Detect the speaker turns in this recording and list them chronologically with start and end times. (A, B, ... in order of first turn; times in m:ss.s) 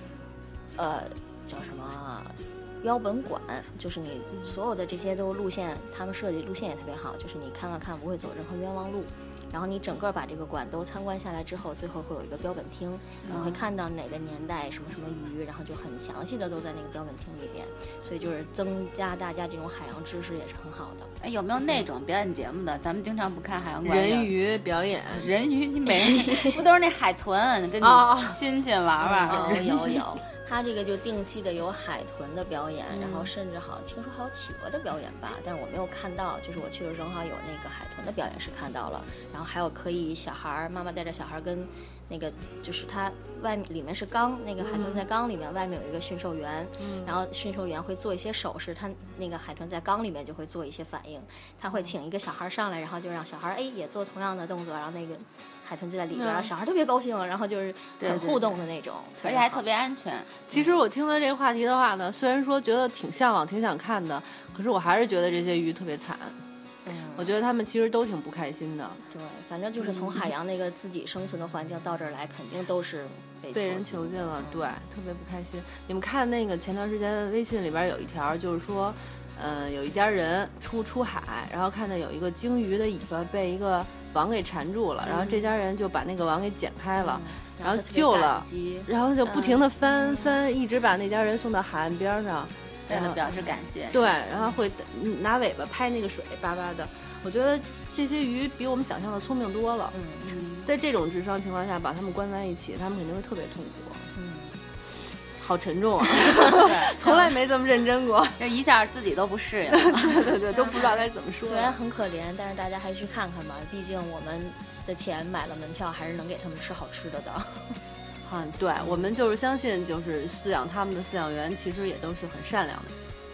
0:00.7-0:21.1 A
0:13.2-0:13.6 B
0:21.2-0:24.3 B
0:23.8-0:25.3 C
0:25.1-0:29.7 B
0:27.8-0:28.4 C
0:29.0-0:59.6 A
0:29.3-0:30.0 C
0:32.9-0:33.3 B
0:44.6-0:45.1 C
0:46.8-0:47.1 C
0:56.1-0:56.5 C
0:58.0-0:58.5 B
0:59.2-1:00.3 B
1:00.5-1:06.4 C
1:00.5-1:00.8 A
1:06.8-1:07.3 A
1:07.1-1:09.0 C
1:09.1-1:14.7 A
1:09.8-1:10.2 C
1:13.5-1:33.4 C
1:25.0-1:25.5 B
1:27.0-1:28.9 A
1:29.2-1:29.6 B
1:30.0-1:30.3 A
1:32.9-1:34.1 B
1:33.9-1:40.0 C
1:39.9-1:40.4 A
1:40.2-1:40.7 B
1:40.6-1:44.1 C
1:44.1-1:44.6 A
1:45.4-1:48.4 C
1:46.6-1:47.2 B
1:48.4-1:50.4 B
1:49.7-1:51.8 C
1:50.5-1:57.8 A
1:58.2-2:02.9 C
1:58.8-1:59.1 A